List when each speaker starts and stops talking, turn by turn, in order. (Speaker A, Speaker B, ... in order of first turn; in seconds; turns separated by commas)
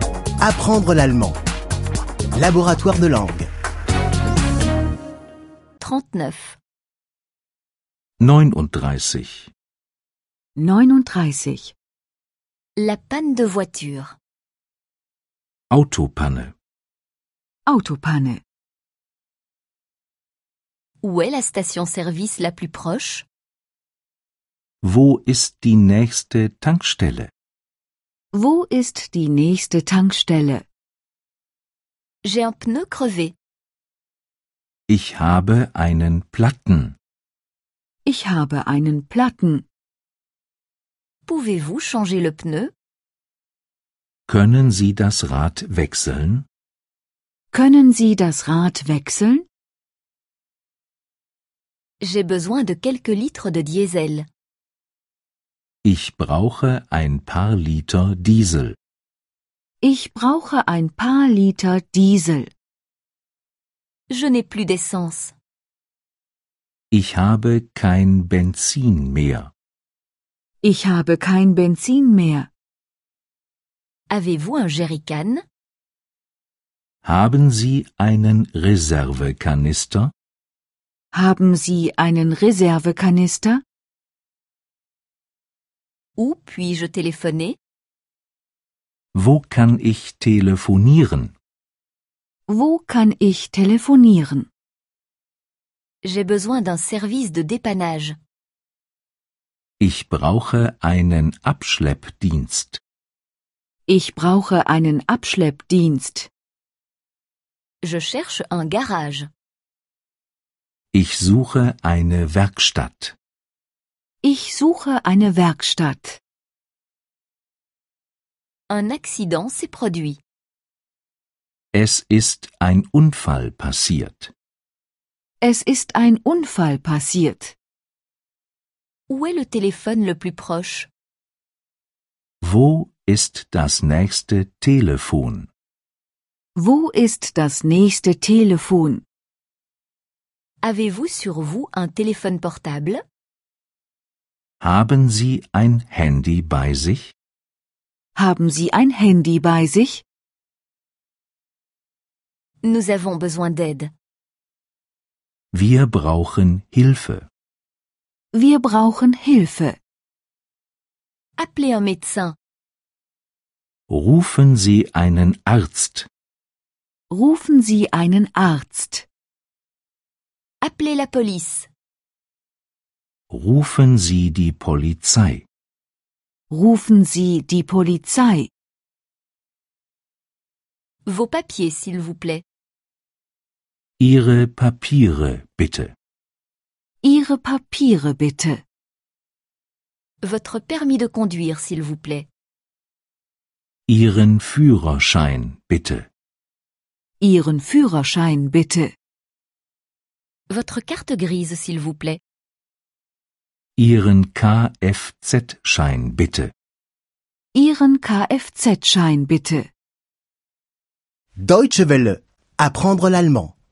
Speaker A: 0.4-1.4, Speaker A: 2.4-3.5, Speaker B: 5.8-6.6, Speaker C: 8.2-9.5, Speaker D: 10.6-11.7, Speaker B: 12.8-14.2, Speaker C: 15.7-16.5, Speaker D: 17.7-18.4, Speaker B: 21.0-23.3, Speaker C: 24.8-27.3, Speaker D: 28.3-30.6, Speaker B: 32.2-33.3, Speaker C: 34.9-37.0, Speaker D: 38.0-39.6, Speaker B: 41.3-42.7, Speaker C: 44.3-46.5, Speaker D: 47.5-49.5, Speaker B: 52.0-54.3, Speaker C: 55.8-58.8, Speaker D: 59.8-62.5, Speaker B: 64.1-65.3, Speaker C: 66.9-69.5, Speaker D: 70.6-72.5, Speaker B: 74.1-75.4, Speaker C: 77.0-80.1, Speaker D: 81.1-83.6, Speaker B: 86.2-87.6, Speaker C: 89.2-91.3, Speaker D: 92.5-94.5, Speaker B: 96.0-98.2, Speaker C: 99.8-102.8, Speaker D: 103.9-106.3, Speaker B: 107.8-109.3, Speaker C: 110.9-113.2, Speaker D: 114.2-116.2, Speaker B: 118.7-120.2, Speaker C: 121.7-124.3, Speaker D: 125.4-127.5, Speaker B: 129.1-130.9, Speaker C: 132.4-135.5, Speaker D: 136.6-139.0, Speaker B: 140.6-143.0, Speaker C: 144.6-147.1, Speaker D: 148.2-150.0, Speaker B: 152.6-153.9, Speaker C: 155.5-157.3, Speaker D: 158.3-159.8, Speaker B: 161.4-162.4, Speaker C: 163.9-166.1, Speaker D: 167.1-169.1, Speaker B: 170.6-171.7, Speaker C: 173.3-175.5, Speaker D: 176.5-178.5, Speaker B: 181.1-182.4, Speaker C: 184.0-185.9, Speaker D: 187.0-188.6, Speaker B: 190.2-192.3, Speaker C: 193.9-196.1, Speaker D: 197.2-198.9, Speaker B: 200.5-202.2, Speaker C: 203.8-206.5, Speaker D: 207.5-209.7, Speaker A: 211.4-213.6